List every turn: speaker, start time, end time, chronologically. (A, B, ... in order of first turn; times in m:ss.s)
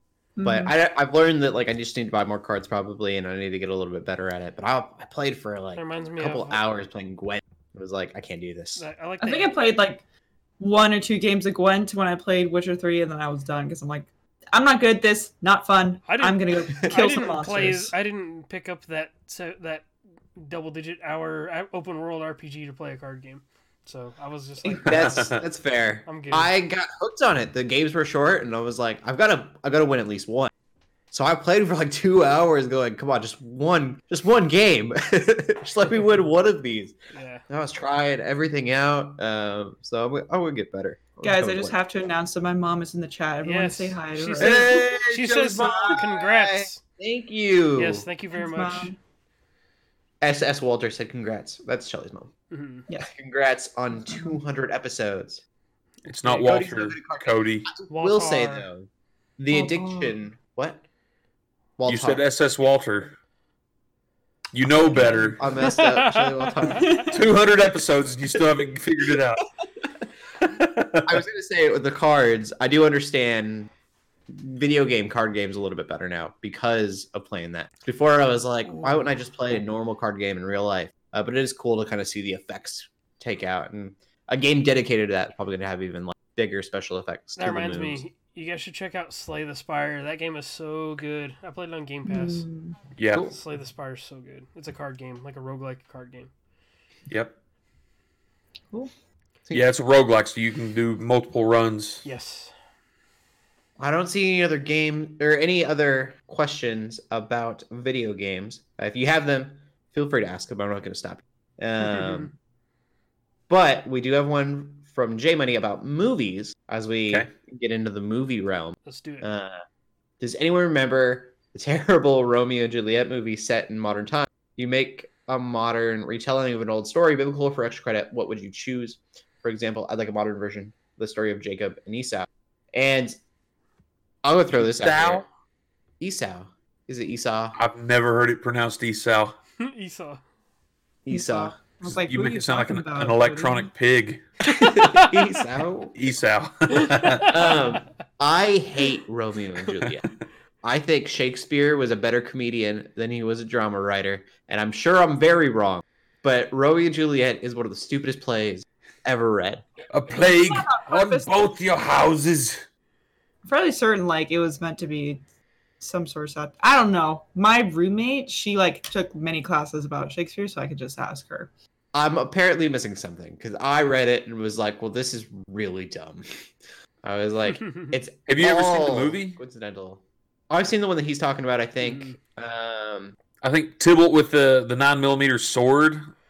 0:00.4-0:00.7 A
0:00.4-0:08.8 B
0:05.8-0:06.6 C
0:08.8-0:09.6 C
0:09.2-0:10.0 A
0:10.6-0:17.9 A
0:16.1-0:25.3 C
0:24.8-0:30.5 B
0:24.9-0:25.4 D
0:26.1-0:26.5 C
0:31.1-0:37.0 B
0:37.1-0:37.4 C
0:37.5-0:41.8 B
0:41.2-0:44.7 A
0:43.4-0:46.8 C
0:44.4-0:45.7 D
0:44.4-0:48.1 B
0:47.8-0:48.9 C
0:48.3-0:49.0 A
0:50.2-0:52.3 B
0:52.5-0:52.9 C
0:53.1-0:55.4 B
0:54.0-0:54.4 A
0:56.0-0:57.7 D
0:56.2-0:56.6 C
0:56.3-0:58.9 B
0:57.9-0:58.7 C
0:59.4-1:00.8 B
0:59.5-1:00.2 A
1:01.8-1:02.2 B
1:01.9-1:03.2 D
1:04.5-1:05.5 D
1:05.0-1:05.3 A
1:05.4-1:07.1 B
1:05.4-1:07.1 C
1:06.8-1:07.2 A
1:07.1-1:09.4 D
1:10.4-1:11.2 D
1:11.0-1:13.7 B
1:14.3-1:28.0 B
1:27.4-1:32.5 C
1:32.1-1:32.8 A
1:33.0-1:33.3 D
1:33.2-1:36.3 C
1:37.1-1:37.3 D
1:39.5-1:42.0 D
1:42.0-1:42.5 C
1:43.8-1:52.3 B
1:51.8-1:52.3 C
1:53.5-1:59.6 B
1:58.9-1:59.3 C
2:00.2-2:13.2 B
2:14.2-2:15.2 B
2:14.5-2:15.3 D
2:16.0-2:17.6 B
2:17.6-2:19.4 D
2:19.6-2:20.2 C
2:21.0-2:21.6 B
2:21.1-2:23.7 A
2:21.9-2:24.2 D
2:24.5-2:26.0 B
2:24.5-2:25.3 C
2:26.0-2:27.4 D
2:26.7-2:27.6 C
2:27.3-2:30.1 B
2:30.6-2:39.7 B
2:39.9-2:42.6 D
2:40.1-2:41.6 A
2:43.5-2:45.2 A
2:45.8-2:51.5 A
2:51.9-2:56.3 B
2:57.0-3:03.2 B
2:57.5-2:58.0 C
2:58.3-2:59.4 D
3:01.8-3:02.2 C
3:03.4-3:06.1 D